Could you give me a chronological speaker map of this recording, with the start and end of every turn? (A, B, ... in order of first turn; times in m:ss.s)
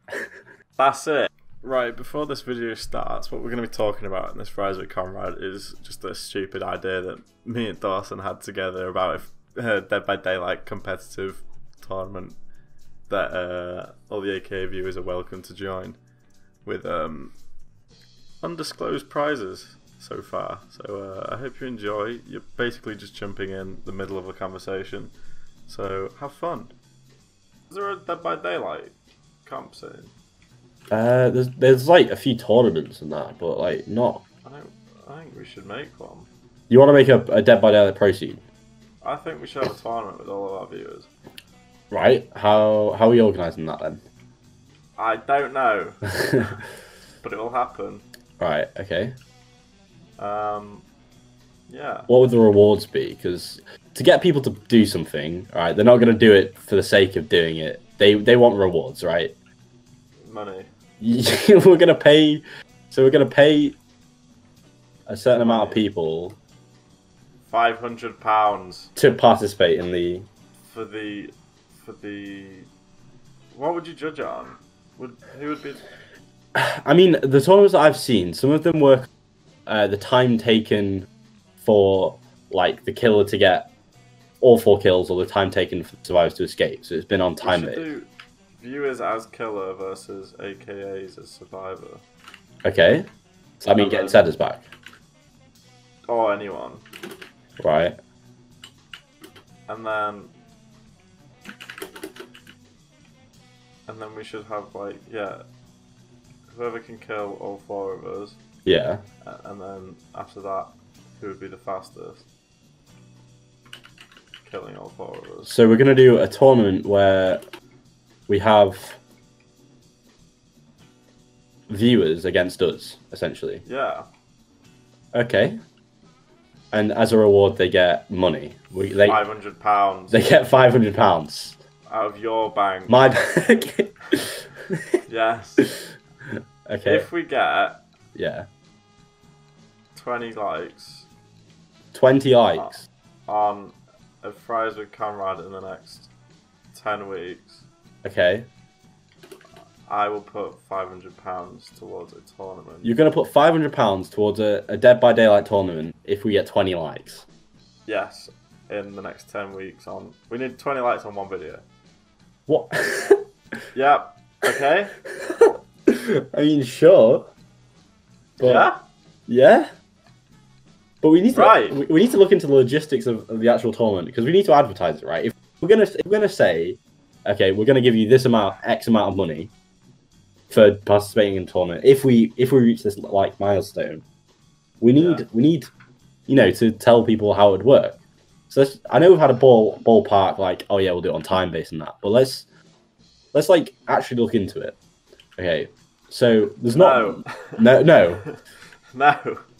0:00.8-0:12.4 A
0:13.1-0:16.0 A
0:16.6-0:17.3 A
0:18.4-0:25.1 A
0:25.7-0:26.7 A
0:27.7-0:30.1 A
0:30.9-0:34.2 B
0:34.4-0:36.3 A
0:36.7-0:38.4 B
0:39.0-0:41.1 A
0:41.9-0:44.0 B
0:45.0-0:46.0 A
0:46.3-0:46.5 B
0:47.2-0:48.0 A
0:48.4-0:49.2 B
0:50.2-0:50.8 A
0:51.7-0:52.1 A
0:52.1-0:59.3 B
1:00.2-1:00.7 A
1:01.0-1:03.8 B
1:05.1-1:06.4 B
1:05.4-1:05.8 A
1:07.5-1:08.9 A
1:09.0-1:10.3 B
1:10.6-1:12.7 A
1:13.5-1:15.8 A
1:16.6-1:19.1 B
1:19.7-1:21.1 B
1:21.6-1:23.7 B
1:24.4-1:27.9 B
1:27.4-1:32.0 A
1:32.6-1:33.1 B
1:33.6-1:34.7 B
1:33.8-1:34.2 A
1:36.1-1:36.8 A
1:37.6-1:37.9 B
1:39.7-1:40.3 A
1:43.9-1:45.4 A
1:46.5-1:48.4 A
1:48.7-1:49.0 B
1:49.2-1:52.2 A
1:54.4-1:55.5 A
1:55.4-1:57.4 B
1:58.3-1:59.0 B
2:01.7-2:03.6 B
2:03.6-2:04.1 A
2:05.1-2:05.6 B
2:06.7-2:09.2 B
2:09.1-2:10.3 A
2:10.1-2:11.6 B
2:11.9-2:13.0 A
2:12.9-2:14.8 B
2:15.1-2:15.7 A
2:16.7-2:17.1 B
2:16.8-2:17.8 A
2:18.2-2:18.5 B
2:20.0-2:21.1 A
2:21.9-2:22.8 B
2:23.3-2:26.1 A
2:26.7-2:27.6 A
2:28.0-2:28.5 B
2:29.9-2:33.0 A
2:32.8-2:37.2 B
2:37.9-2:41.6 A
2:42.5-2:43.2 B
2:43.7-2:44.9 A
2:45.2-2:47.3 B
2:48.4-2:48.7 B
2:48.4-2:48.8 A
2:49.3-2:49.7 B
2:51.0-2:59.5 B
2:51.3-2:51.8 A
3:00.5-3:04.0 B
3:04.8-3:05.7 B
3:05.0-3:05.2 A
3:06.3-3:12.5 B
3:13.3-3:14.8 B
3:15.4-3:18.3 B
3:16.7-3:17.6 A
3:18.9-3:19.4 A